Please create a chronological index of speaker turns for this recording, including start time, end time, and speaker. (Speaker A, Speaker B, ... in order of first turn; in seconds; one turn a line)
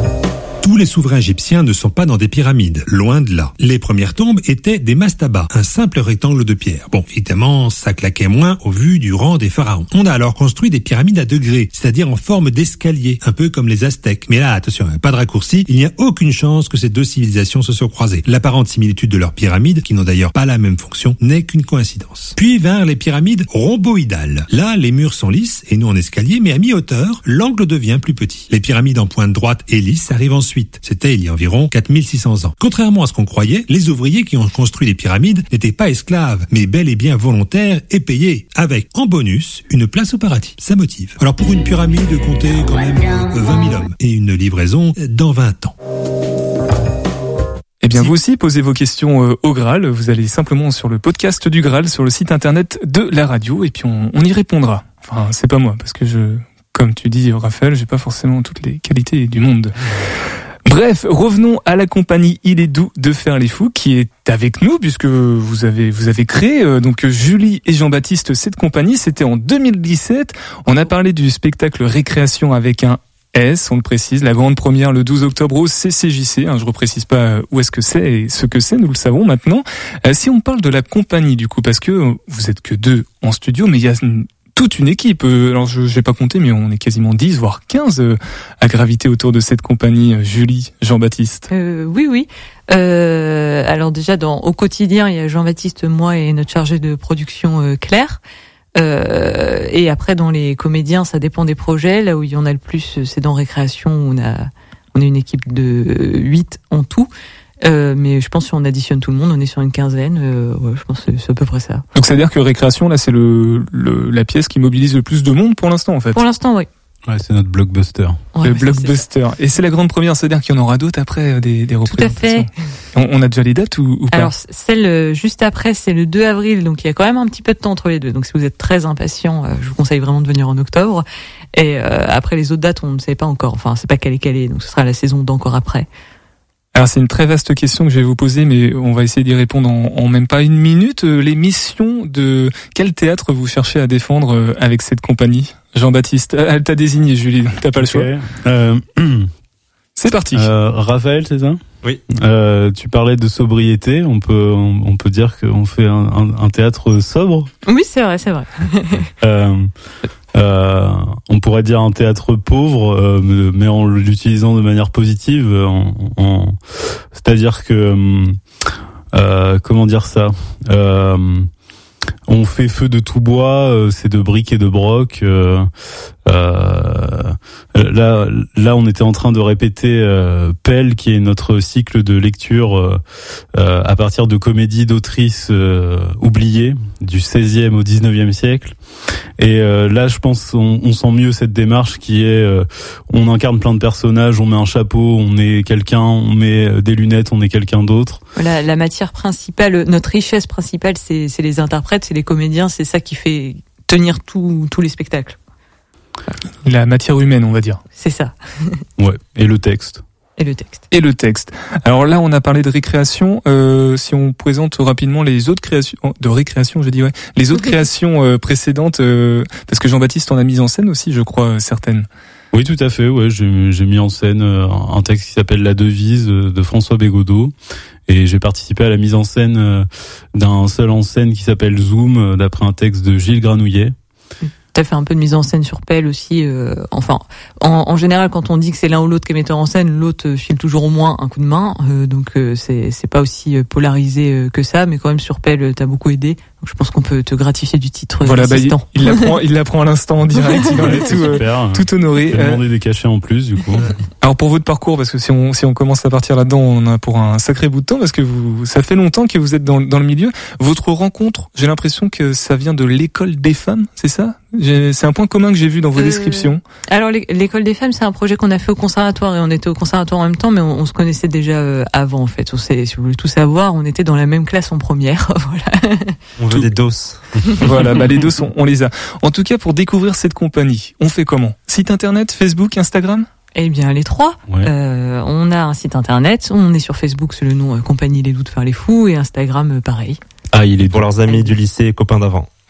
Speaker A: 0.6-45.7
Speaker B: 47.8-59.7
Speaker B: 60.6-91.5
Speaker C: 91.5-98.2
Speaker C: 98.8-107.1
Speaker C: 107.6-111.8
Speaker B: 111.9-116.2
Speaker C: 116.1-116.7
Speaker D: 117.1-118.2
Speaker C: 118.3-119.0
Speaker B: 118.4-124.3
Speaker C: 121.8-122.5
Speaker C: 124.1-131.0
Speaker C: 131.6-135.9
Speaker B: 136.7-148.1
Speaker D: 147.7-149.3
Speaker B: 150.0-150.5
Speaker D: 150.3-157.5
Speaker C: 157.7-159.1
Speaker D: 159.2-159.7
Speaker D: 160.3-168.4
Speaker D: 169.1-171.5
Speaker D: 172.3-175.7
Speaker D: 176.2-183.0
Speaker D: 183.5-188.7
Speaker D: 189.4-198.2
Speaker C: 198.3-205.4
Speaker B: 206.6-207.8
Speaker C: 207.9-208.8
Speaker D: 209.0-210.0
Speaker C: 210.4-210.9
Speaker B: 210.9-222.1
Speaker D: 222.5-227.5
Speaker D: 228.1-233.9
Speaker C: 234.4-249.3
Speaker B: 248.2-252.6
Speaker C: 250.3-251.3
Speaker D: 250.7-253.9
Speaker B: 254.2-266.6
Speaker C: 265.9-276.2
Speaker E: 276.4-277.2
Speaker B: 277.6-283.3
Speaker C: 283.5-290.2
Speaker D: 290.5-291.1
Speaker E: 290.9-292.5